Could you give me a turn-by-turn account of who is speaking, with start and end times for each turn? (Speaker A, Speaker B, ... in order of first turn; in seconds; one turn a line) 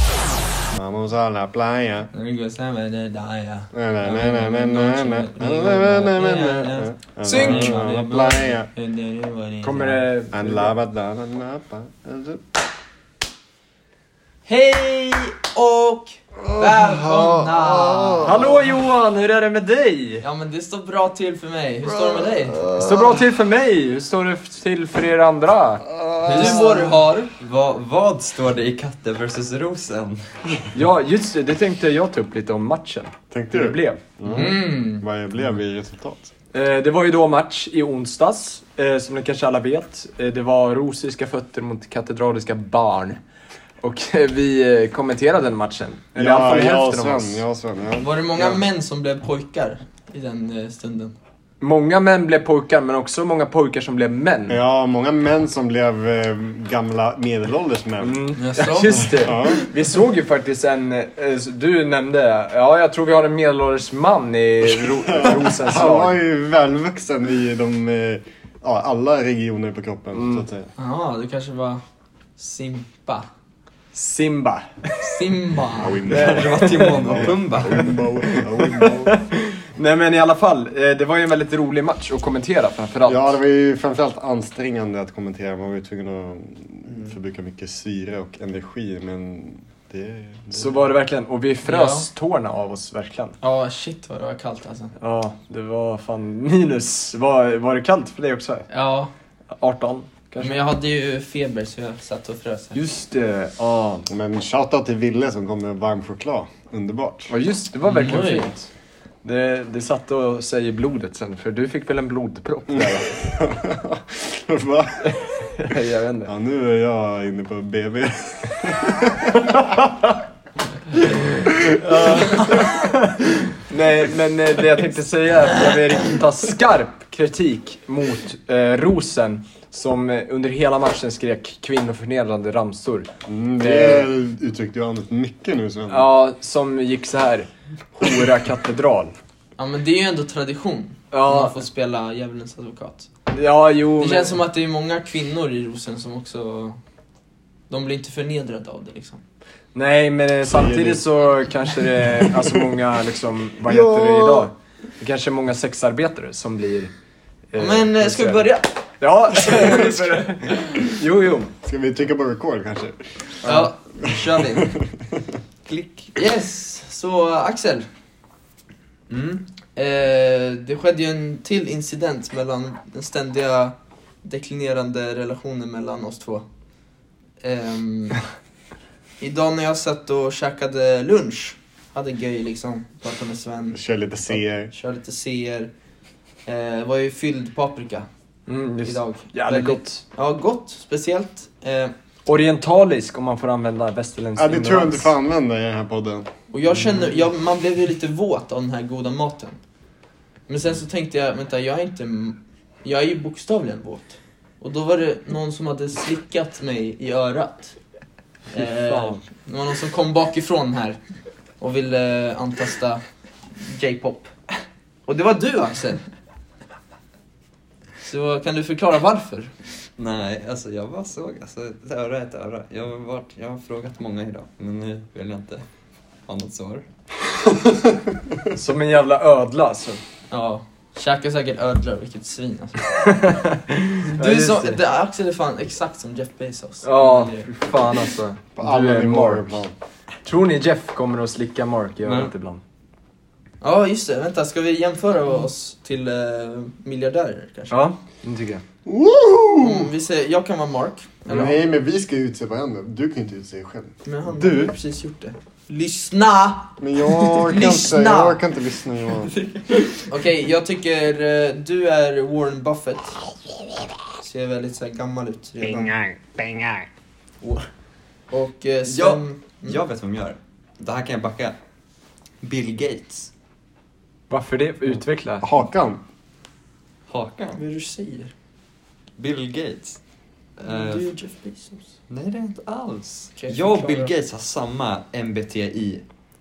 Speaker A: 0.7-2.1
Speaker B: 2.1-10.0
Speaker A: 3.7-8.7
Speaker C: 7.3-7.7
Speaker C: 9.6-10.7
Speaker A: 10.3-12.4
Speaker B: 14.4-18.5
Speaker A: 16.5-18.5
Speaker C: 18.2-20.2
Speaker B: 20.2-22.7
Speaker A: 22.5-23.0
Speaker C: 22.8-25.8
Speaker A: 25.9-26.6
Speaker D: 26.2-30.6
Speaker B: 26.3-27.3
Speaker C: 30.7-34.0
Speaker A: 33.3-36.3
Speaker D: 34.2-34.5
Speaker B: 34.3-35.0
Speaker C: 36.5-43.2
Speaker C: 43.8-47.4
Speaker A: 46.1-48.1
Speaker B: 48.0-51.1
Speaker C: 51.6-54.6
Speaker A: 54.5-58.3
Speaker C: 58.0-66.2
Speaker B: 58.3-59.3
Speaker A: 58.9-59.7
Speaker A: 64.6-70.7
Speaker C: 70.1-70.5
Speaker B: 70.8-71.8
Speaker B: 72.4-73.3
Speaker C: 73.9-75.3
Speaker B: 75.0-76.0
Speaker A: 75.7-79.2
Speaker D: 76.0-78.0
Speaker C: 76.0-83.3
Speaker A: 83.0-90.9
Speaker C: 90.5-93.4
Speaker B: 91.6-92.1
Speaker B: 93.4-94.9
Speaker C: 95.0-98.7
Speaker B: 98.7-99.1
Speaker C: 99.5-100.6
Speaker B: 100.4-102.8
Speaker C: 102.7-104.1
Speaker A: 104.1-107.3
Speaker C: 107.3-108.7
Speaker B: 107.9-108.5
Speaker C: 109.2-113.3
Speaker A: 112.7-115.5
Speaker C: 115.1-116.3
Speaker A: 116.2-119.8
Speaker C: 119.4-120.1
Speaker C: 121.0-134.1
Speaker A: 121.5-122.5
Speaker A: 133.2-136.1
Speaker C: 135.9-139.1
Speaker B: 139.6-143.1
Speaker C: 141.1-141.5
Speaker C: 143.3-144.4
Speaker B: 144.0-146.8
Speaker B: 147.7-149.2
Speaker C: 149.7-156.9
Speaker A: 150.4-151.0
Speaker A: 152.0-152.8
Speaker A: 153.6-154.5
Speaker C: 157.5-158.5
Speaker B: 157.6-160.8
Speaker C: 159.0-161.5
Speaker A: 161.6-163.3
Speaker B: 163.4-164.7
Speaker A: 164.0-165.2
Speaker D: 165.6-166.1
Speaker B: 166.2-167.9
Speaker D: 169.1-169.4
Speaker B: 169.7-176.4
Speaker B: 177.4-178.2
Speaker B: 179.2-183.8
Speaker A: 183.7-184.7
Speaker B: 184.7-185.7
Speaker B: 186.4-188.1
Speaker C: 188.5-190.0
Speaker B: 188.8-191.9
Speaker C: 192.2-195.1
Speaker A: 194.3-196.3
Speaker B: 196.5-199.6
Speaker B: 200.5-207.7
Speaker B: 208.5-211.0
Speaker C: 208.5-209.2
Speaker B: 211.6-213.0
Speaker B: 213.6-214.3
Speaker B: 215.1-216.0
Speaker B: 218.0-219.5
Speaker D: 220.0-225.7
Speaker D: 226.3-226.8
Speaker C: 228.5-230.0
Speaker B: 230.3-233.1
Speaker C: 233.0-234.8
Speaker B: 234.1-237.5
Speaker C: 236.8-239.6
Speaker A: 238.6-239.7
Speaker C: 240.2-242.6
Speaker D: 242.0-242.3
Speaker B: 243.6-247.8
Speaker C: 247.7-248.6
Speaker A: 248.8-249.9
Speaker B: 249.6-251.5
Speaker A: 251.3-254.7
Speaker B: 254.0-258.4
Speaker A: 256.8-259.3
Speaker D: 259.4-259.9
Speaker B: 260.1-263.3
Speaker B: 264.2-265.9
Speaker A: 265.6-266.9
Speaker B: 267.4-267.7
Speaker B: 268.3-269.8
Speaker D: 268.8-271.6
Speaker D: 272.4-273.3
Speaker C: 274.3-275.5
Speaker A: 275.4-276.0
Speaker D: 277.1-277.6
Speaker B: 277.6-278.3
Speaker D: 279.2-280.0
Speaker D: 280.6-281.1
Speaker B: 280.7-281.8
Speaker D: 282.1-286.0
Speaker B: 283.4-284.1